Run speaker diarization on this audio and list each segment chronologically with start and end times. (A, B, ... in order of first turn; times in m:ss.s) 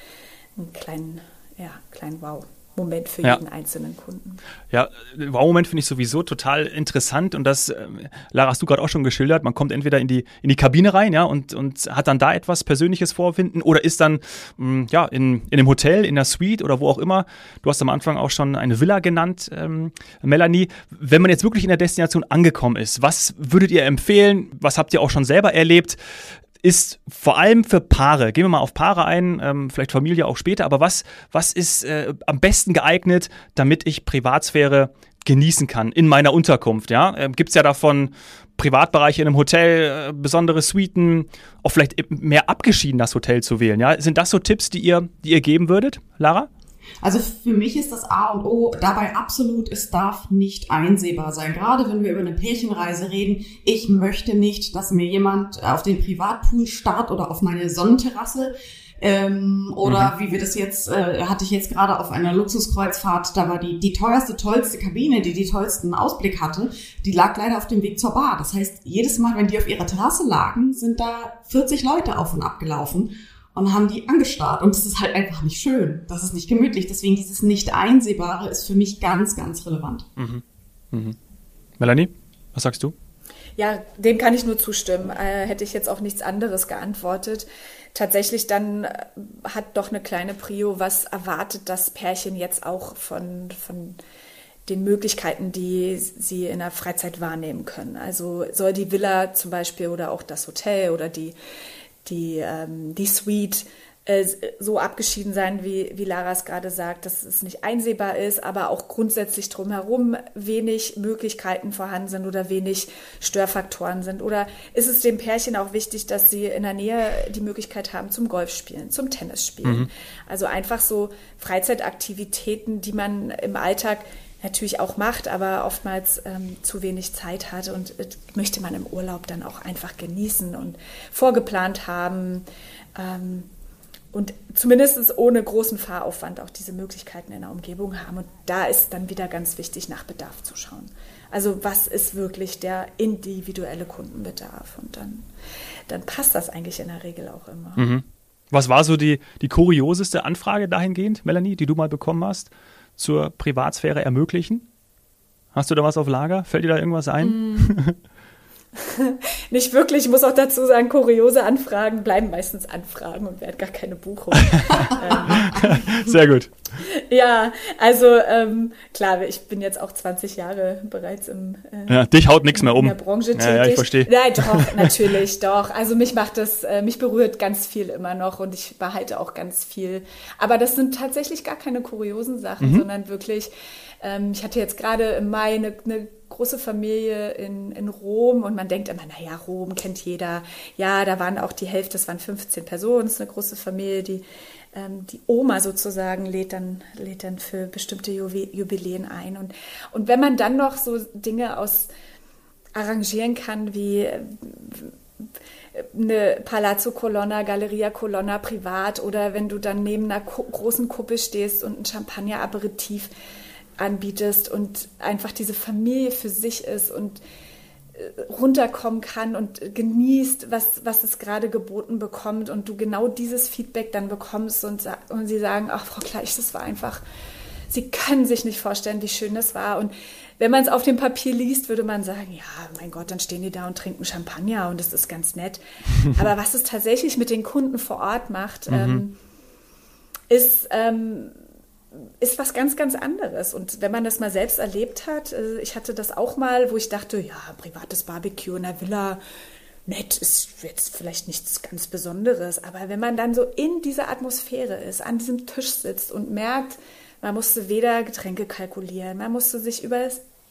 0:00.6-0:04.4 A
0:04.7-0:26.0 B
0:26.6-0:46.5 B
0:47.0-1:20.1 C
0:59.8-1:00.1 B
1:20.2-1:21.2 B
1:21.8-1:22.9 B
1:23.6-1:34.0 A
1:34.7-1:41.3 A
1:42.0-2:12.4 A
2:13.0-2:13.5 A
2:14.1-2:25.2 A
2:25.9-2:27.9 A
2:27.8-2:34.6 B
2:35.5-2:38.0 B
2:37.2-2:37.8 A
2:38.8-2:46.1 A
2:44.6-2:46.5 B
2:46.8-3:21.9 A
2:51.9-2:54.9 B
3:22.7-3:25.0 A
3:25.7-3:33.1 A
3:33.8-3:37.2 A
3:37.9-3:47.0 A
3:47.7-3:59.2 A
3:58.7-3:59.0 B
4:00.3-4:01.4 A
4:02.2-4:09.2 A
4:09.8-4:20.2 A